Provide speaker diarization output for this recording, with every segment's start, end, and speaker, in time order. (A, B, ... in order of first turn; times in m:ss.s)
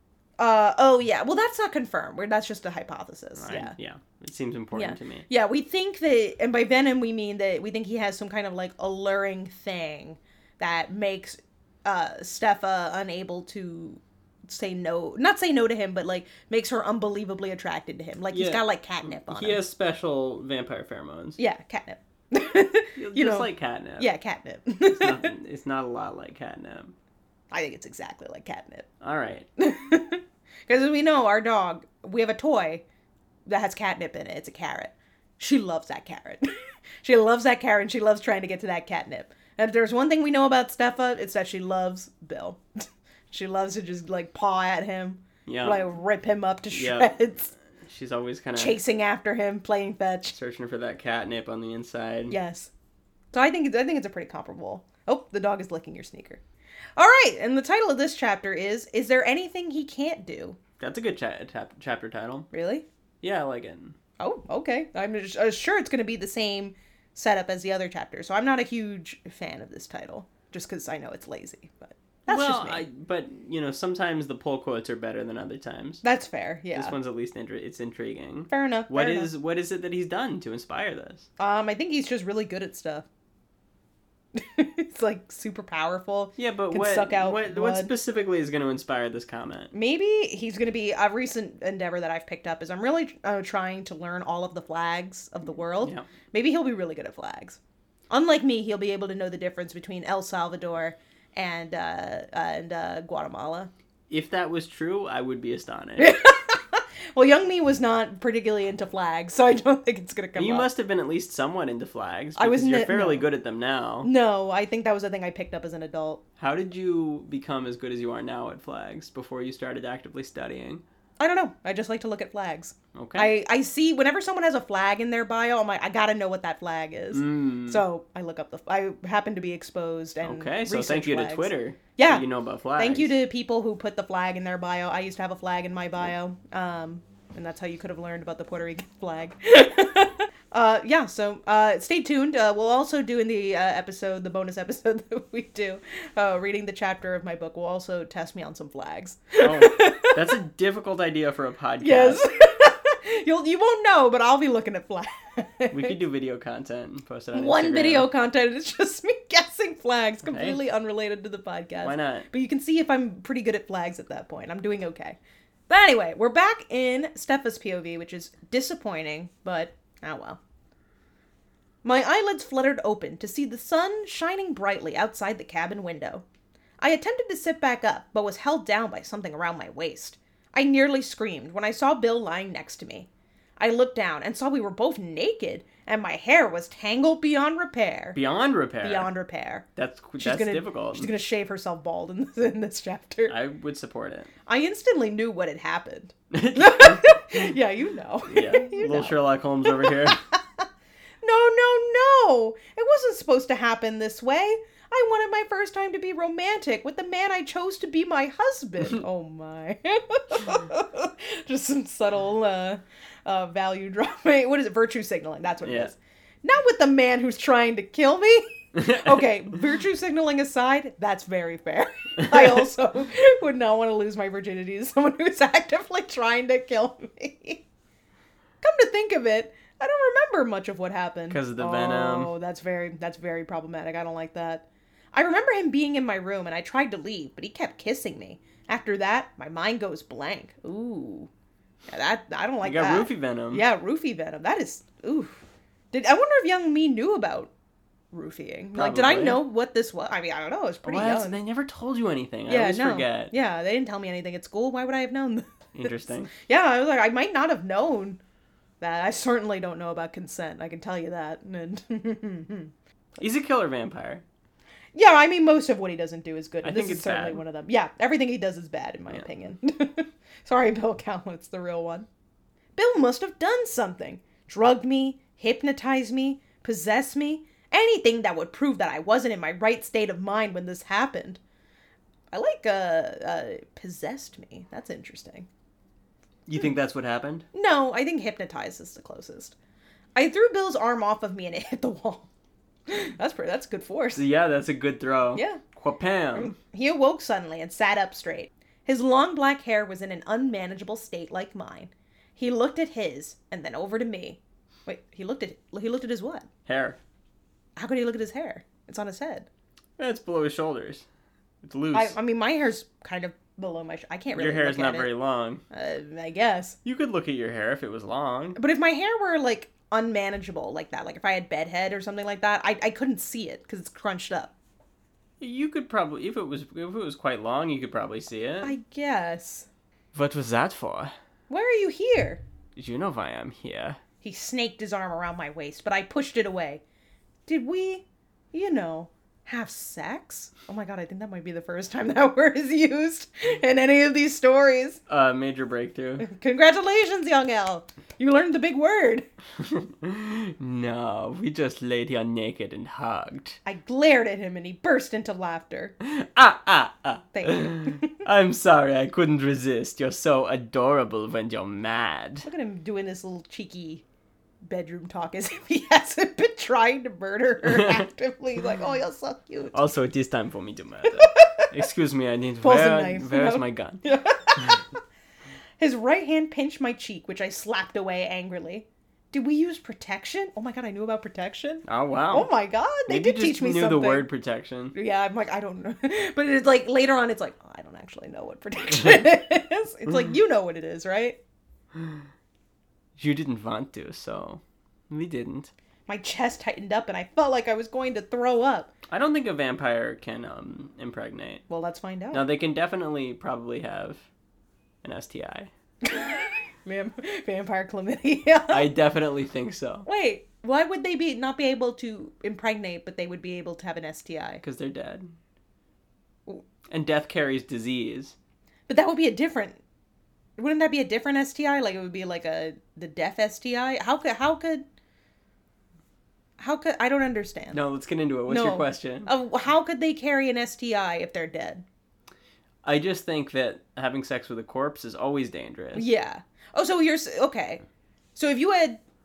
0:00.4-0:03.7 A
0:03.4-0:05.2 B
0:04.7-0:19.6 A
0:18.3-0:21.4 B
0:21.4-0:25.3 A
0:23.0-0:24.1 B
0:24.9-0:26.9 B
0:27.5-0:28.9 A
0:29.0-0:29.5 B
0:29.6-0:32.8 A
0:33.4-0:36.5 A
0:37.0-0:47.5 A
0:45.4-0:45.8 B
0:46.7-0:47.1 B
0:47.7-0:48.8 B
0:48.6-0:50.4 A
0:50.3-0:52.3 B
0:52.3-0:52.7 A
0:53.3-0:56.4 A
0:57.0-1:00.6 A
1:00.8-1:02.5 B
1:02.5-1:02.8 A
1:03.2-1:04.0 B
1:04.2-1:12.8 A
1:12.3-1:16.0 B
1:16.0-1:16.9 A
1:16.7-1:21.3 B
1:18.5-1:19.3 A
1:21.4-1:23.0 A
1:24.3-1:27.9 A
1:26.4-1:29.7 B
1:29.7-1:37.6 A
1:35.8-1:36.1 B
1:38.1-1:43.7 A
1:44.1-1:46.1 B
1:46.0-1:50.7 A
1:50.4-1:54.1 B
1:52.4-1:53.2 A
1:54.0-1:56.2 A
1:56.4-2:00.8 B
2:01.2-2:12.2 A
2:02.9-2:03.3 B
2:07.1-2:07.8 B
2:10.2-2:13.1 B
2:12.8-2:30.2 A
2:29.4-2:32.2 B
2:31.8-2:36.0 A
2:35.7-2:38.1 B
2:37.3-2:45.2 A
2:40.3-2:40.6 B
2:41.8-2:42.3 B
2:45.7-2:50.4 A
2:51.8-2:56.2 A
2:56.8-3:08.2 A
3:08.1-3:09.1 B
3:08.8-3:09.6 A
3:09.8-3:11.1 B
3:10.2-3:13.4 A
3:13.3-3:14.3 B
3:14.4-3:20.6 A
3:16.3-3:17.5 B
3:18.3-3:20.2 B
3:21.2-3:47.6 A
3:35.6-3:35.9 B
3:38.7-3:39.2 B
3:48.6-4:01.3 A
3:51.3-3:52.3 B
4:01.9-4:07.5 A
4:02.6-4:03.6 B
4:08.1-4:11.4 A
4:08.7-4:09.4 B
4:10.8-4:13.3 B
4:12.5-4:18.2 A
4:15.7-4:16.3 B
4:18.8-4:22.7 A
4:23.2-4:24.2 B
4:24.9-4:32.1 A
4:26.6-4:27.4 B
4:32.8-4:41.4 A
4:42.3-4:45.5 A
4:46.5-4:47.5 B
4:47.5-4:49.6 A
4:50.2-4:52.3 A
4:52.9-4:54.2 A
4:54.1-4:56.5 B
4:55.3-4:55.6 A
4:56.3-5:06.5 A
5:06.6-5:07.0 B
5:07.8-5:09.5 A
5:10.0-5:11.0 B
5:11.6-5:12.2 B
5:11.9-5:15.1 A
5:14.3-5:15.6 B
5:15.7-5:16.8 A
5:16.8-5:18.6 B
5:18.6-5:24.5 A
5:25.4-5:28.7 B
5:28.6-5:29.7 A
5:30.1-5:31.1 B
5:31.5-5:32.4 A
5:32.8-5:34.0 B
5:34.2-5:36.8 A
5:37.5-5:45.0 A
5:45.1-5:46.2 B
5:46.2-5:49.2 A
5:49.6-5:53.6 B
5:53.6-5:55.9 A
5:56.0-6:02.5 B
5:57.3-5:58.2 A
6:02.4-6:04.0 A
6:04.6-6:09.8 A
6:07.6-6:08.0 B
6:09.7-6:14.0 B
6:11.0-6:11.7 A
6:12.6-6:15.0 A
6:15.8-6:24.3 A
6:21.8-6:22.5 B
6:23.1-6:24.9 B
6:24.9-6:31.4 A
6:31.9-6:32.2 B
6:33.2-6:35.7 B
6:36.1-6:38.9 A
6:39.1-6:41.6 B
6:41.7-6:42.4 A
6:42.3-6:44.2 B
6:45.0-6:45.7 B
6:46.0-6:48.9 A
6:48.7-6:50.0 B
6:50.0-6:54.6 A
6:54.6-6:55.3 B
6:56.9-6:58.3 B
6:58.9-6:59.8 A
7:00.6-7:04.8 A
7:06.6-7:07.8 A
7:07.7-7:09.3 B
7:08.5-7:11.8 A
7:12.8-7:16.1 B
7:15.9-7:17.8 A
7:18.4-7:19.0 A